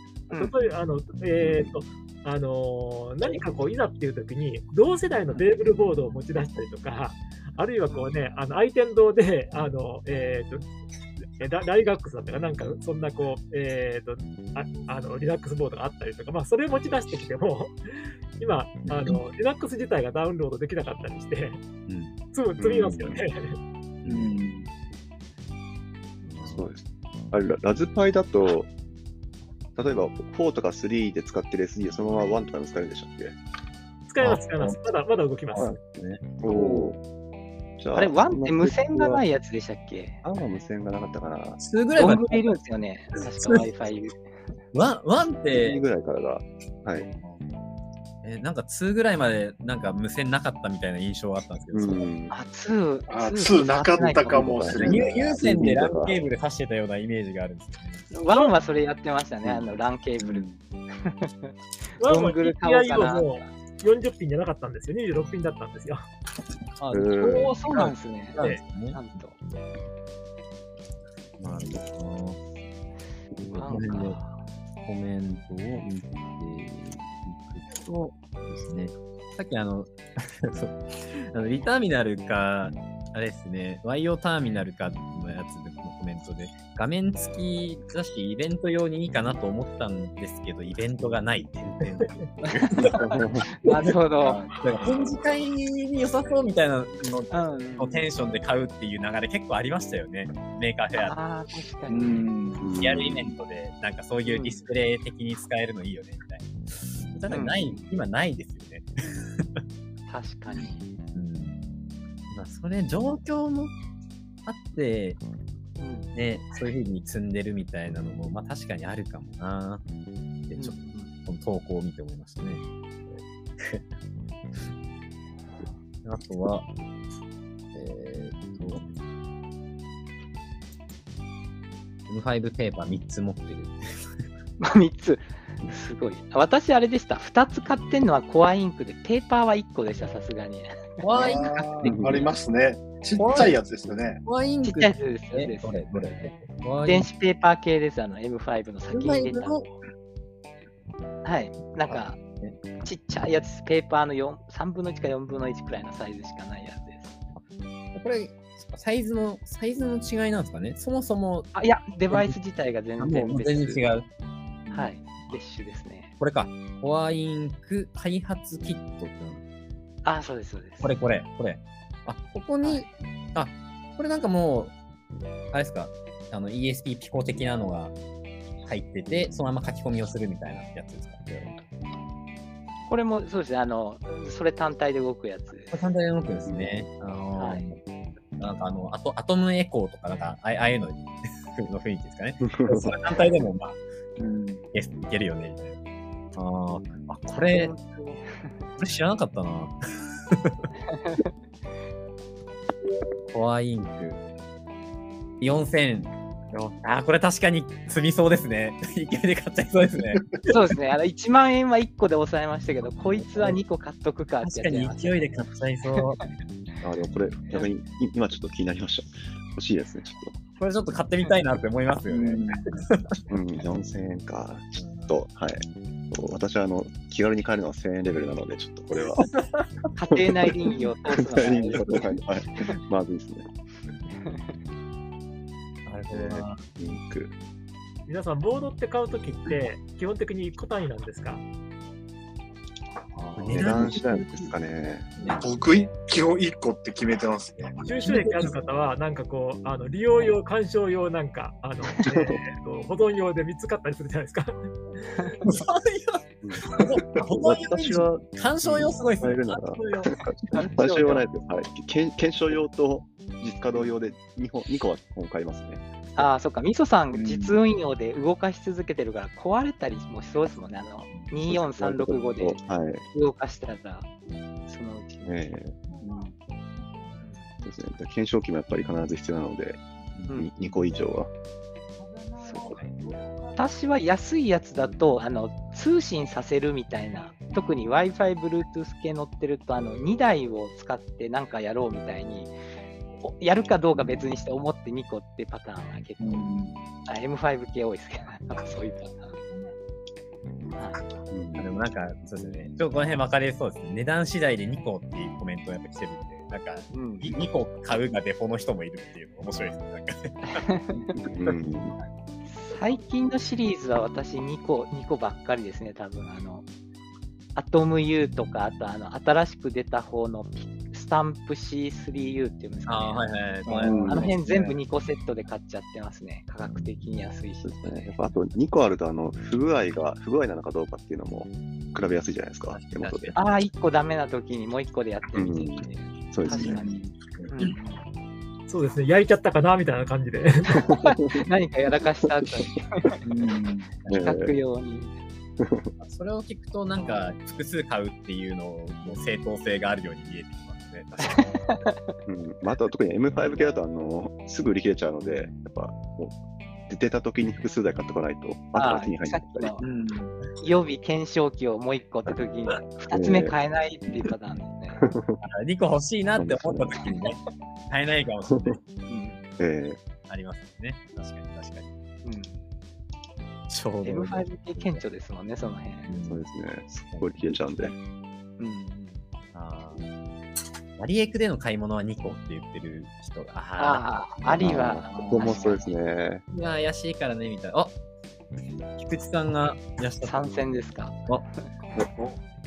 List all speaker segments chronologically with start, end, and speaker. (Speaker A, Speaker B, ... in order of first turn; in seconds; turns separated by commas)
Speaker A: 0.3-10.7, Speaker A: 11.4-21.6, Speaker B: 18.8-19.2, Speaker B: 21.9-22.1, Speaker A: 22.3-23.6, Speaker C: 22.6-23.2, Speaker B: 24.0-24.4, Speaker D: 24.1-24.7, Speaker B: 26.2-26.7, Speaker C: 26.4-28.7, Speaker C: 29.8-33.4, Speaker A: 34.1-35.7, Speaker B: 34.2-34.8, Speaker B: 35.5-36.2, Speaker C: 36.4-37.0, Speaker E: 36.5-36.9, Speaker C: 37.8-39.2, Speaker E: 37.9-40.2, Speaker C: 40.2-41.6, Speaker B: 41.6-42.5, Speaker E: 42.0-44.5, Speaker B: 43.4-43.6, Speaker B: 44.7-45.8, Speaker C: 45.5-47.1, Speaker B: 47.0-47.4, Speaker B: 48.2-52.0, Speaker C: 51.7-52.3, Speaker E: 52.3-55.1, Speaker D: 53.1-55.5, Speaker C: 54.3-56.1, Speaker B: 54.8-58.0, Speaker E: 58.1-63.5, Speaker A: 58.3-58.5, Speaker D: 60.2-60.6, Speaker A: 62.0-66.0, Speaker B: 66.8-69.0, Speaker C: 66.9-67.5, Speaker E: 67.2-68.4, Speaker E: 68.9-69.3, Speaker B: 71.4-72.4, Speaker B: 73.4-74.2, Speaker E: 73.5-74.4, Speaker B: 74.8-93.2, Speaker E: 92.5-94.5, Speaker B: 94.2-101.2, Speaker E: 97.3-98.1, Speaker E: 101.0-102.3, Speaker D: 101.9-102.7, Speaker C: 102.6-103.3, Speaker B: 102.8-109.6, Speaker E: 104.2-104.6, Speaker E: 107.3-107.9, Speaker E: 110.1-110.9, Speaker B: 111.1-111.6, Speaker B: 112.3-113.7, Speaker B: 114.5-115.2, Speaker E: 115.8-116.1, Speaker B: 116.1-119.8, Speaker B: 120.5-123.9, Speaker E: 120.6-121.1, Speaker B: 126.0-126.7, Speaker B: 127.7-128.9, Speaker B: 132.1-134.1, Speaker E: 134.6-141.8, Speaker B: 141.0-142.2, Speaker D: 141.1-144.2, Speaker C: 141.8-142.1, Speaker B: 143.2-143.6, Speaker B: 144.2-147.1, Speaker E: 144.6-146.3, Speaker E: 146.8-149.7, Speaker B: 148.9-149.7, Speaker E: 151.2-152.2, Speaker B: 151.9-152.6, Speaker E: 152.8-157.2, Speaker B: 157.9-161.5, Speaker E: 161.5-163.9, Speaker B: 162.1-162.4, Speaker B: 163.0-164.1, Speaker E: 164.7-166.1, Speaker B: 166.2-169.4, Speaker E: 170.0-170.9, Speaker B: 170.8-174.8, Speaker E: 172.6-172.9, Speaker B: 175.5-177.9, Speaker B: 178.6-181.5, Speaker E: 182.9-185.8, Speaker B: 185.7-187.8, Speaker C: 186.4-186.7, Speaker E: 187.3-187.7, Speaker B: 188.3-193.8, Speaker C: 192.4-192.9, Speaker D: 194.2-194.6, Speaker B: 194.7-195.8, Speaker B: 196.3-197.7, Speaker E: 197.5-198.7, Speaker B: 198.8-199.7, Speaker E: 200.9-201.3, Speaker B: 203.3-204.2, Speaker B: 205.4-210.3, Speaker E: 210.5-215.3, Speaker B: 213.0-213.6, Speaker B: 214.4-216.2, Speaker C: 216.8-220.4, Speaker B: 220.6-223.2, Speaker D: 222.1-222.7, Speaker C: 223.3-229.3, Speaker B: 224.8-225.1, Speaker B: 229.2-229.6, Speaker E: 229.9-232.2, Speaker C: 231.1-233.5, Speaker E: 234.1-234.6, Speaker B: 235.8-236.6, Speaker C: 236.1-237.3, Speaker A: 238.1-241.4, Speaker B: 243.1-244.5, Speaker C: 243.3-245.4, Speaker B: 245.1-245.4, Speaker D: 245.4-247.8, Speaker B: 247.8-248.2, Speaker A: 247.8-254.5, Speaker B: 255.4-261.2, Speaker C: 256.4-266.3, Speaker E: 266.1-274.1, Speaker D: 267.1-267.6, Speaker C: 271.5-273.0, Speaker E: 274.6-275.4, Speaker C: 275.2-275.8, Speaker D: 276.0-276.3, Speaker E: 277.1-277.4, Speaker C: 277.6-281.3, Speaker B: 280.2-280.8, Speaker E: 282.4-282.8, Speaker B: 282.6-282.9, Speaker E: 283.5-292.5, Speaker E: 293.2-296.5, Speaker D: 296.2-296.8, Speaker E: 297.0-299.6, Speaker E: 300.8-301.0, Speaker C: 301.3-301.7, Speaker B: 301.6-310.6, Speaker E: 306.9-307.3, Speaker E: 310.5-311.2, Speaker C: 311.3-311.9, Speaker E: 312.4-316.7, Speaker E: 317.5-323.3, Speaker B: 322.9-324.3, Speaker D: 323.6-324.8, Speaker C: 323.8-324.2, Speaker E: 324.1-328.1, Speaker C: 327.6-333.4, Speaker B: 332.7-333.6, Speaker E: 333.3-337.0, Speaker C: 335.3-336.9, Speaker D: 336.5-337.8, Speaker E: 337.5-338.0, Speaker A: 338.7-340.8, Speaker E: 340.9-343.2, Speaker C: 342.2-342.7, Speaker D: 343.2-343.9, Speaker C: 344.1-344.5, Speaker E: 344.1-345.1, Speaker C: 345.6-345.9, Speaker B: 346.0-351.7, Speaker E: 351.2-352.1, Speaker C: 352.2-359.8, Speaker E: 358.8-359.9, Speaker D: 359.8-360.4, Speaker E: 360.6-365.0, Speaker C: 363.1-363.5, Speaker C: 364.9-365.4, Speaker B: 365.4-367.4, Speaker C: 366.4-367.0, Speaker B: 367.9-368.8, Speaker E: 369.1-369.4, Speaker C: 369.6-370.0, Speaker B: 370.3-371.9, Speaker E: 372.2-372.6, Speaker B: 373.7-375.0, Speaker E: 374.0-376.1, Speaker B: 376.1-376.4, Speaker C: 376.3-377.9, Speaker B: 377.1-377.4, Speaker E: 378.6-379.2, Speaker B: 379.5-380.0, Speaker B: 381.0-384.6, Speaker E: 383.8-385.9, Speaker C: 384.5-386.4, Speaker D: 385.1-385.6, Speaker B: 386.5-387.9, Speaker B: 389.0-390.4, Speaker E: 390.2-391.6